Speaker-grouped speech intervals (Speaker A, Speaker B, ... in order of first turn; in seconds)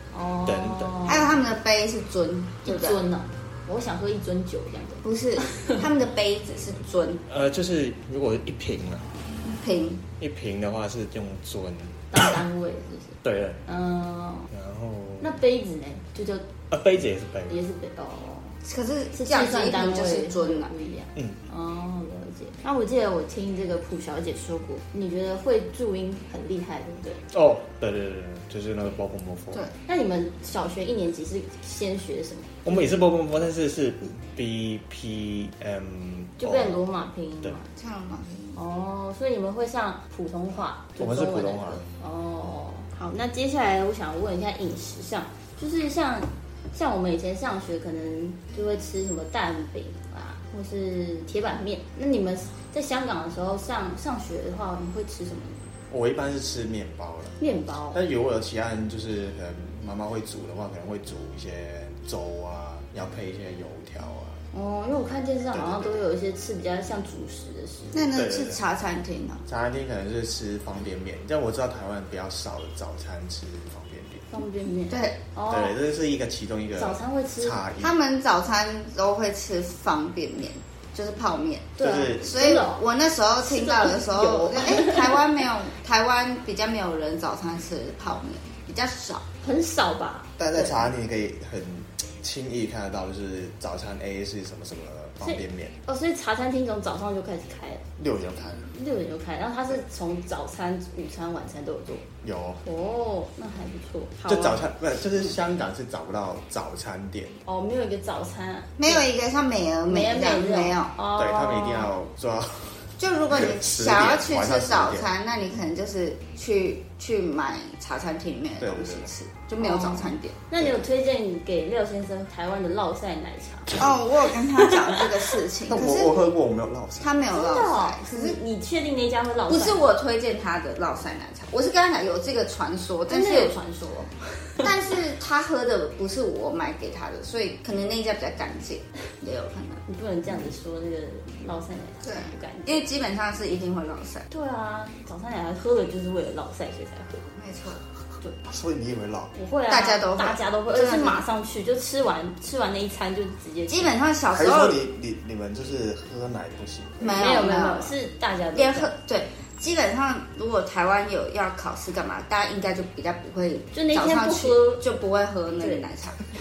Speaker A: 0.1-1.4, 2.6-5.9, 12.1-14.5, 15.2-16.5, 17.5-18.6, 19.1-27.2, 29.9-32.9, 36.4-37.6, 38.5-55.7, 57.4-58.0, 64.5-68.1, 74.3-75.8, 76.8-77.6, 81.8-82.8, 83.4-85.2, 89.4-90.8, 95.2-97.8, 98.5-102.1, 102.6-104.7, 107.4-109.1, 109.9-111.9, 119.6-125.0, 127.3-129.8, 133.1-134.7, 139.9-142.9, 144.3-147.3, 149.3-153.9, 157.1-158.9, 163.7-164.8, 165.6-165.9
Speaker B: 0.4-1.1, 7.3-9.2, 10.2-12.2, 13.2-13.6, 14.5-15.4, 16.7-17.6, 27.3-29.7, 32.6-36.9, 41.0-41.9, 55.9-57.4, 57.9-64.4, 65.5-66.0, 68.1-68.6, 69.5-74.4, 75.5-78.0, 81.8-82.3, 90.4-95.8, 98.0-98.7, 102.2-102.7, 104.3-107.4, 111.1-115.1, 118.6-119.1, 120.6-120.8, 125.7-127.1, 148.4-149.3, 154.3-157.3
Speaker C: 1.1-3.0, 5.0-7.2, 9.4-10.1, 18.6-20.7, 37.7-38.6, 67.9-69.4, 74.9-75.2, 77.8-89.2, 108.8-111.0, 113.0-120.4, 123.7-126.3, 127.0-128.4, 129.5-133.6, 134.6-139.8, 142.0-144.3, 147.4-147.8, 149.7-151.2, 153.7-154.9, 157.0-157.9, 158.5-166.2